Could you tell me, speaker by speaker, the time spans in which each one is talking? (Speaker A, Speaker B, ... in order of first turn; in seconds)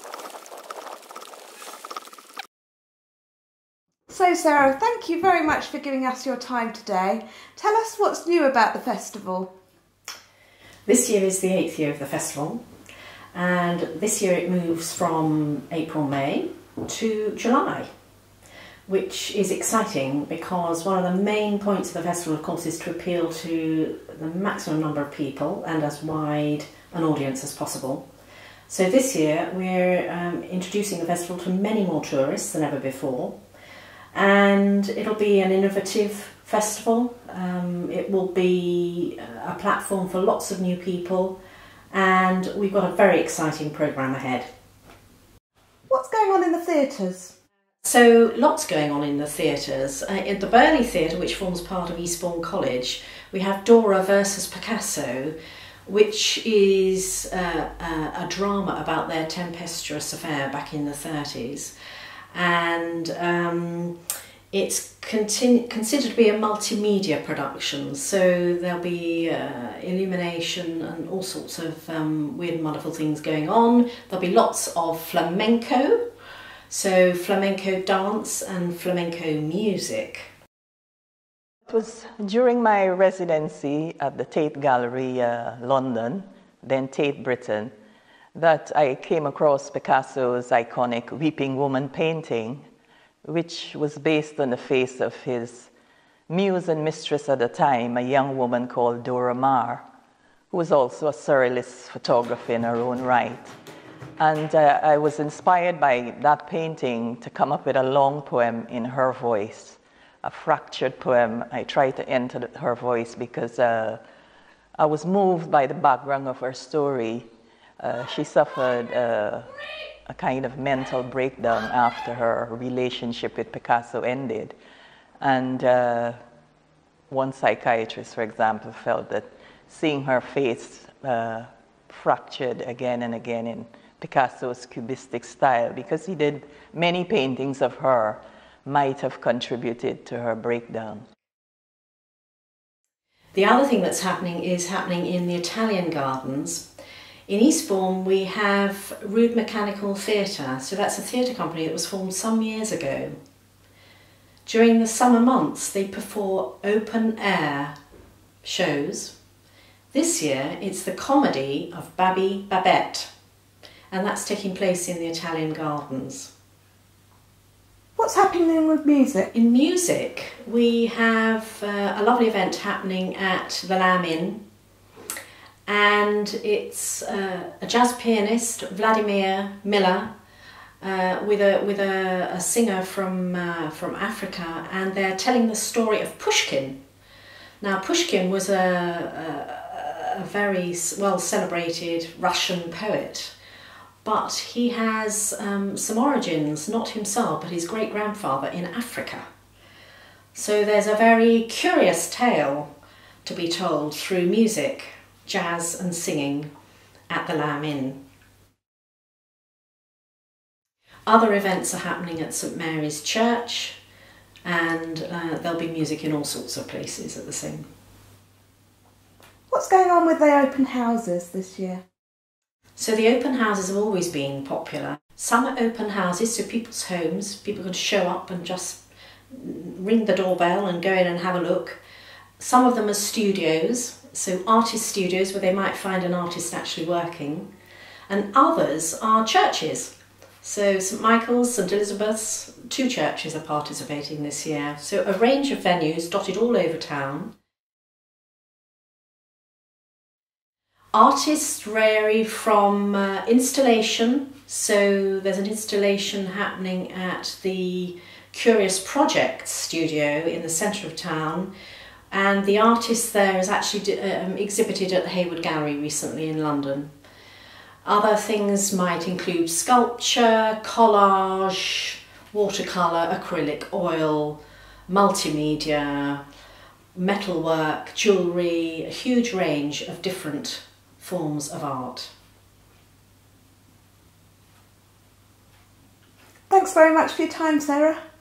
Speaker A: 4.1-9.5, 45.9-47.3, 168.0-169.3, 219.5-221.8, 286.5-288.0
Speaker B: 10.9-12.6, 13.3-17.9, 18.9-28.1, 28.7-33.4, 34.1-41.4, 41.9-44.5, 47.8-55.4, 55.9-61.7, 62.3-64.0, 64.5-76.0, 76.7-80.3, 143.3-146.7, 147.3-153.2, 154.5-157.8, 158.4-159.2, 159.9-163.1, 163.9-166.3, 169.3-174.4, 175.7-180.1, 180.8-186.8, 187.6-193.3, 194.0-199.3, 200.3-202.7, 203.2-206.5, 207.1-208.0, 211.1-213.8, 214.4-217.7, 222.8-231.8, 232.4-237.5, 238.1-247.3, 250.9-261.5, 262.1-266.9, 267.8-276.2, 276.9-282.1
Speaker C: 81.7-87.7, 88.3-92.7, 93.2-95.7, 96.3-99.8, 100.5-103.5, 104.2-114.0, 114.8-117.3, 117.8-124.6, 125.2-126.2, 127.1-141.1